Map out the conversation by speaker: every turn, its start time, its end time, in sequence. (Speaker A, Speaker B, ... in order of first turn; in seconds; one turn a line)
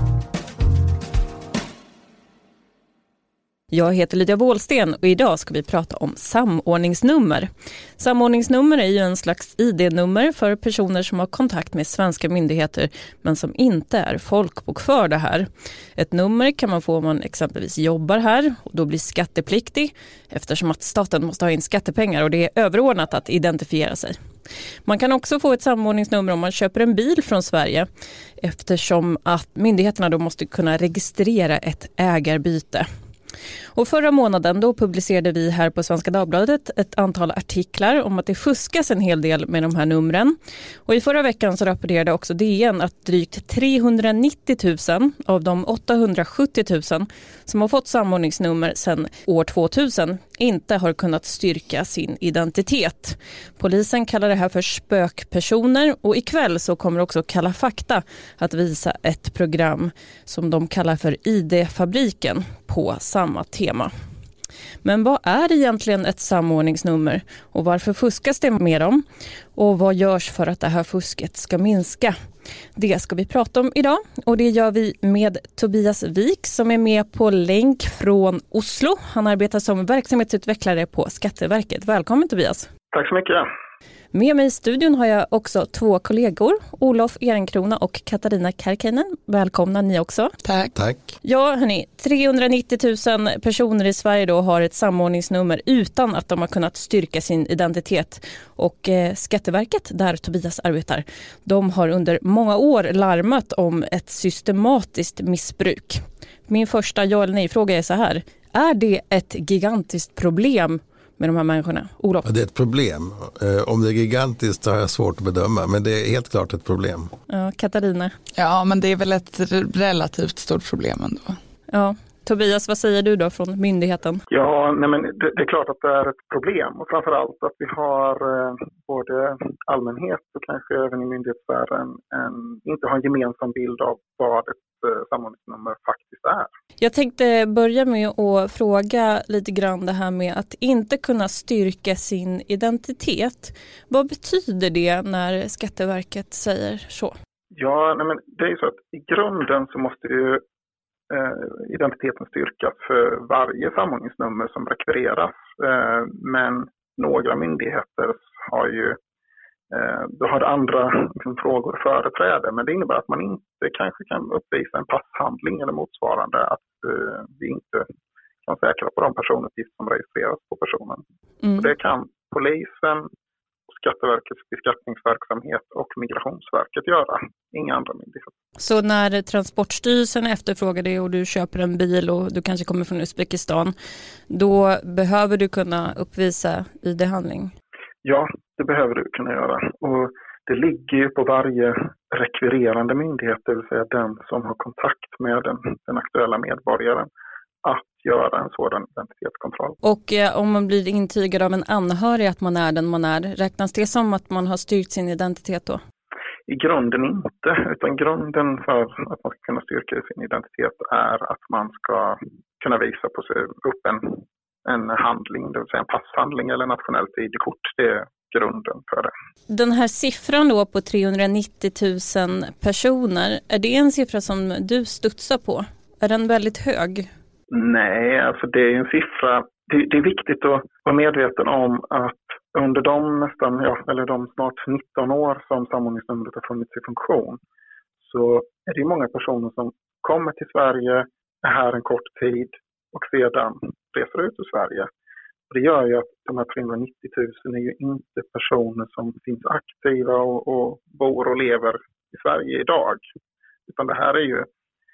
Speaker A: 3.7-24.1
Speaker A: 24.8-27.9
Speaker A: 28.4-32.9
Speaker A: 33.7-63.9
Speaker A: 64.8-69.0
Speaker A: 69.5-72.1
Speaker A: 72.8-82.7
Speaker B: 82.9-83.5
Speaker A: 84.1-90.3
Speaker C: 90.4-90.7
Speaker D: 90.8-91.1
Speaker A: 91.2-112.3
Speaker D: 112.2-117.1
Speaker A: 117.3-118.1
Speaker C: 118.3-121.4
Speaker A: 121.7-124.2
Speaker B: 124.3-136.5
Speaker A: 136.8-147.1
Speaker B: 147.5-150.4
Speaker B: 151.1-159.0
Speaker B: 159.7-167.9
Speaker B: 168.4-171.0
Speaker A: 171.4-171.7
Speaker B: 171.6-173.1
Speaker B: 173.7-178.3
Speaker A: 178.6-183.7
Speaker A: 184.3-187.5
Speaker B: 188.0-197.1
Speaker B: 197.6-199.8
Speaker A: 199.8-205.8
Speaker B: 206.5-219.1
Speaker A: 219.5-227.1
Speaker B: 227.5-237.4
Speaker B: 238.0-244.9
Speaker B: 245.5-253.0
Speaker B: 253.7-254.5